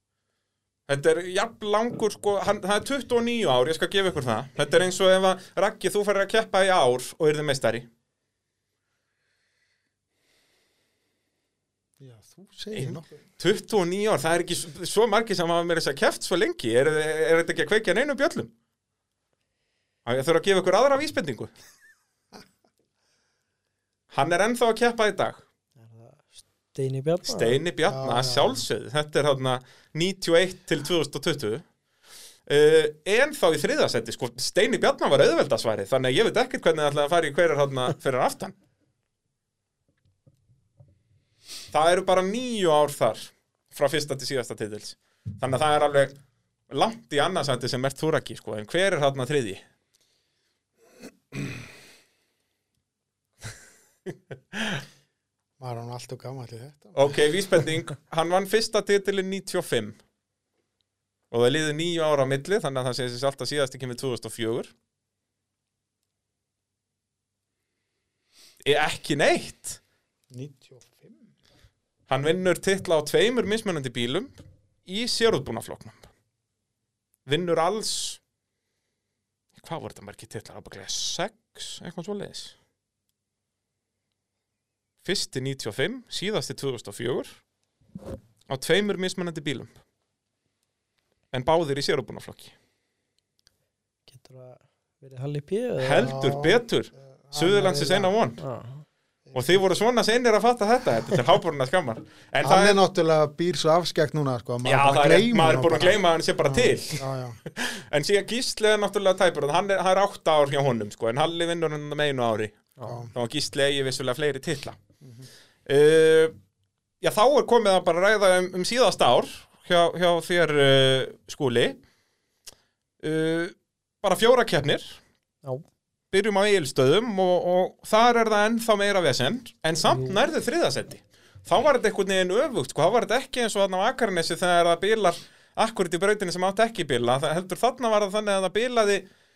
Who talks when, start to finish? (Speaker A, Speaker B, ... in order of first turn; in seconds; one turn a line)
Speaker A: 0.9-7.9
Speaker B: 12.0-13.2
Speaker A: 12.7-18.5
Speaker A: 20.1-21.5
Speaker A: 24.1-25.4
Speaker C: 25.8-27.6
Speaker A: 27.2-31.6
Speaker B: 27.9-28.6
Speaker A: 32.5-38.5
Speaker A: 41.7-46.1
Speaker A: 46.7-49.6
Speaker A: 54.5-54.8
Speaker B: 55.6-57.1
Speaker A: 57.0-60.0
Speaker A: 61.3-64.7
Speaker A: 68.6-69.8
Speaker B: 70.3-71.3
Speaker A: 72.1-74.3
Speaker A: 74.9-76.1
Speaker A: 77.3-78.2
Speaker A: 79.6-82.5
Speaker A: 85.0-87.4
Speaker A: 88.5-89.7
Speaker A: 91.3-92.5
Speaker C: 94.1-96.1
Speaker A: 95.8-98.4
Speaker B: 96.0-98.1
Speaker C: 98.4-98.8
Speaker B: 99.3-99.6
Speaker A: 99.3-102.8
Speaker B: 102.4-107.4
Speaker A: 104.7-114.8
Speaker B: 112.8-113.1
Speaker B: 115.0-115.3
Speaker A: 115.7-116.3
Speaker A: 117.0-121.8
Speaker A: 123.0-125.0
Speaker A: 126.1-139.1
Speaker C: 129.8-130.2